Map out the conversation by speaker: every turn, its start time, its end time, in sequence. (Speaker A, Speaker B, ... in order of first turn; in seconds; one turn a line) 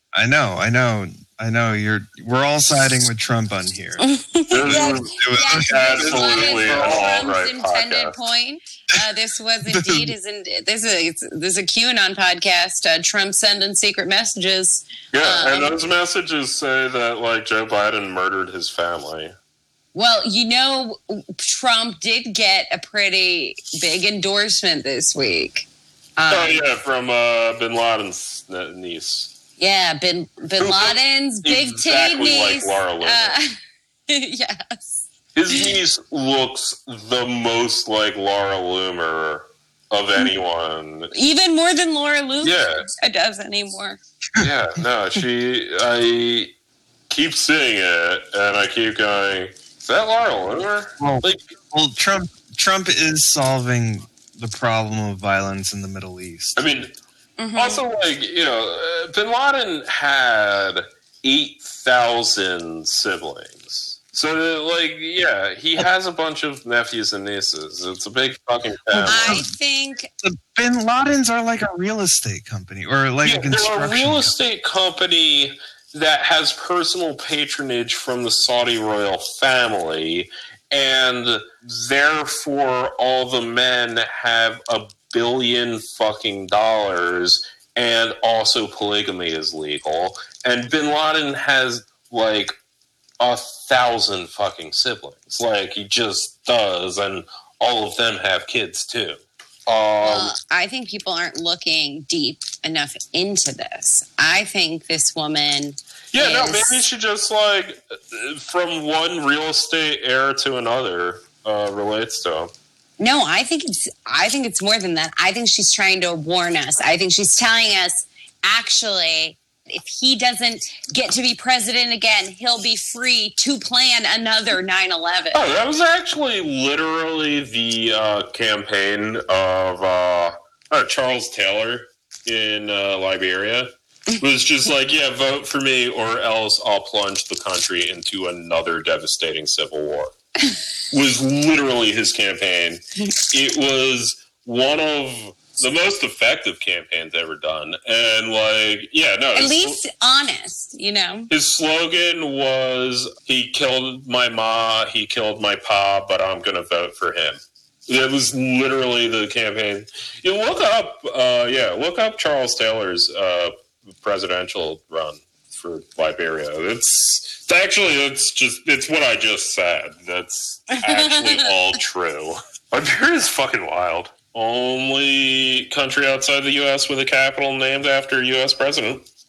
Speaker A: 0.1-4.0
Speaker B: 4.0-15.8
Speaker C: 4.5-8.2
Speaker A: 4.6-7.2
Speaker A: 9.7-10.1
Speaker C: 15.1-19.3
Speaker B: 19.9-26.6
Speaker C: 26.3-29.3
Speaker B: 29.6-33.6
Speaker C: 30.6-33.4
Speaker B: 34.1-35.6
Speaker C: 35.4-41.1
Speaker B: 41.1-44.0
Speaker C: 42.4-42.9
Speaker C: 44.4-46.5
Speaker C: 47.1-51.5
Speaker A: 51.0-56.6
Speaker C: 56.6-56.9
Speaker B: 57.4-57.8
Speaker C: 57.5-69.4
Speaker A: 68.9-69.5
Speaker B: 69.1-70.1
Speaker A: 70.2-74.3
Speaker C: 73.2-92.6
Speaker C: 93.2-100.3
Speaker B: 100.0-106.8
Speaker C: 106.1-112.5
Speaker B: 113.0-125.4
Speaker C: 125.3-140.2
Speaker C: 140.9-149.8
Speaker B: 149.3-151.3
Speaker C: 151.3-179.1
Speaker B: 170.9-171.4